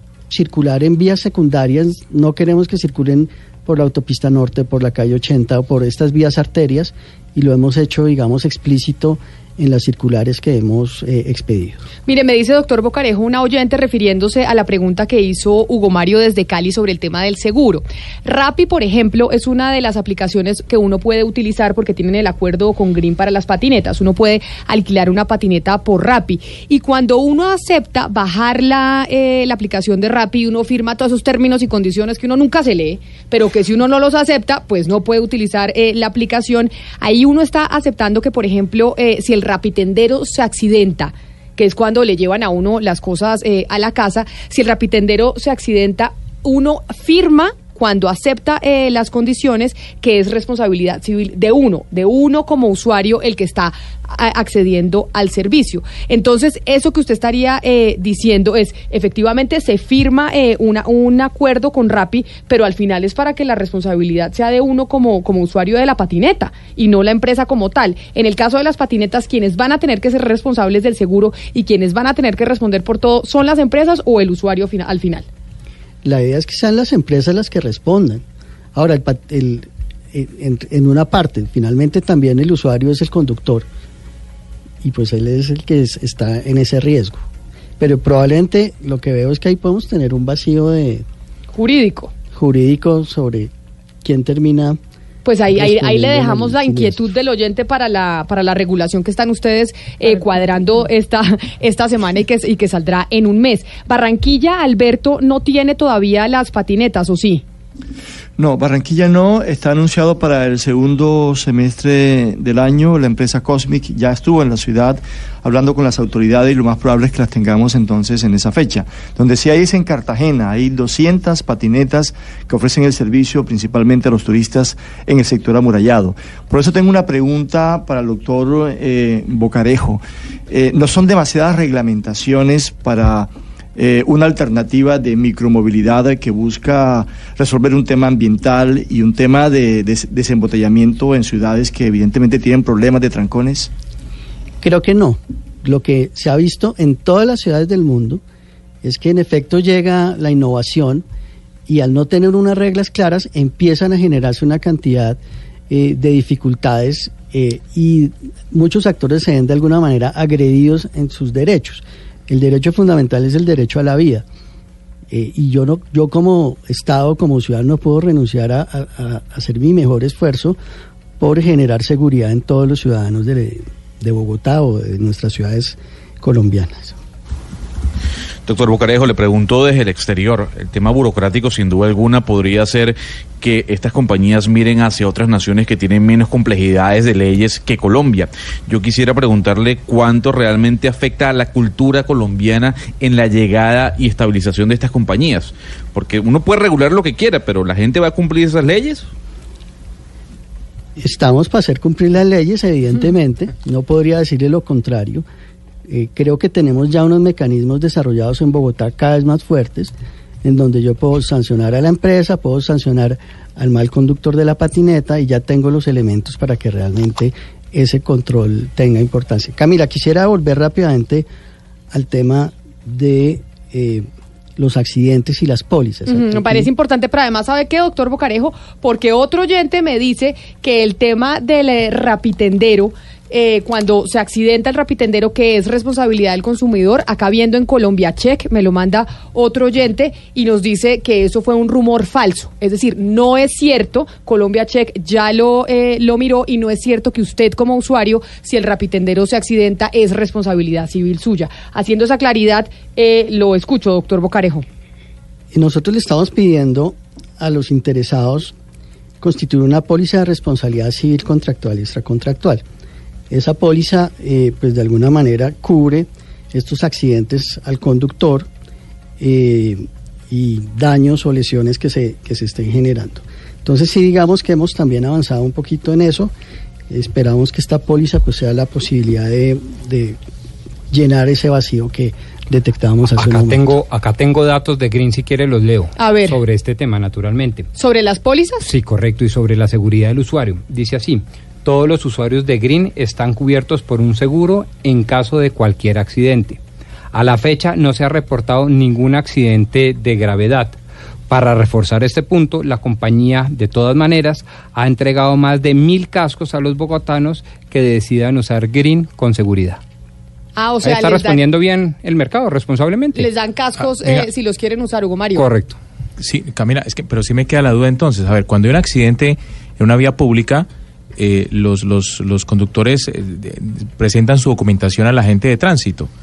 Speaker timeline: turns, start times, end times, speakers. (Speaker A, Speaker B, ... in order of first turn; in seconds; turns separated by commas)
Speaker A: 0.3-11.8, Speaker B: 12.1-75.3, Speaker A: 76.0-83.7, Speaker A: 84.8-87.2, Speaker A: 87.8-91.1, Speaker B: 91.5-92.1, Speaker A: 92.3-93.5, Speaker A: 94.0-94.8, Speaker B: 95.2-107.4, Speaker A: 95.5-97.1, Speaker C: 108.4-143.7, Speaker A: 144.6-148.2, Speaker A: 148.8-151.1, Speaker A: 151.7-164.2, Speaker A: 165.1-170.6, Speaker A: 171.2-177.0, Speaker D: 178.4-199.1, Speaker A: 201.0-205.2, Speaker A: 205.9-221.3, Speaker A: 221.9-226.7, Speaker B: 226.1-254.7, Speaker A: 255.5-258.6, Speaker A: 259.2-262.6, Speaker A: 263.3-268.5, Speaker A: 269.2-276.3, Speaker A: 276.9-280.2, Speaker A: 280.9-283.7, Speaker E: 283.2-287.7, Speaker B: 286.0-286.4, Speaker B: 287.8-288.7, Speaker E: 288.6-296.6, Speaker E: 297.1-300.8, Speaker E: 301.3-309.8, Speaker B: 310.6-311.4, Speaker E: 310.8-313.3, Speaker B: 313.1-315.5, Speaker F: 314.0-314.3, Speaker E: 315.4-315.8, Speaker F: 316.2-326.1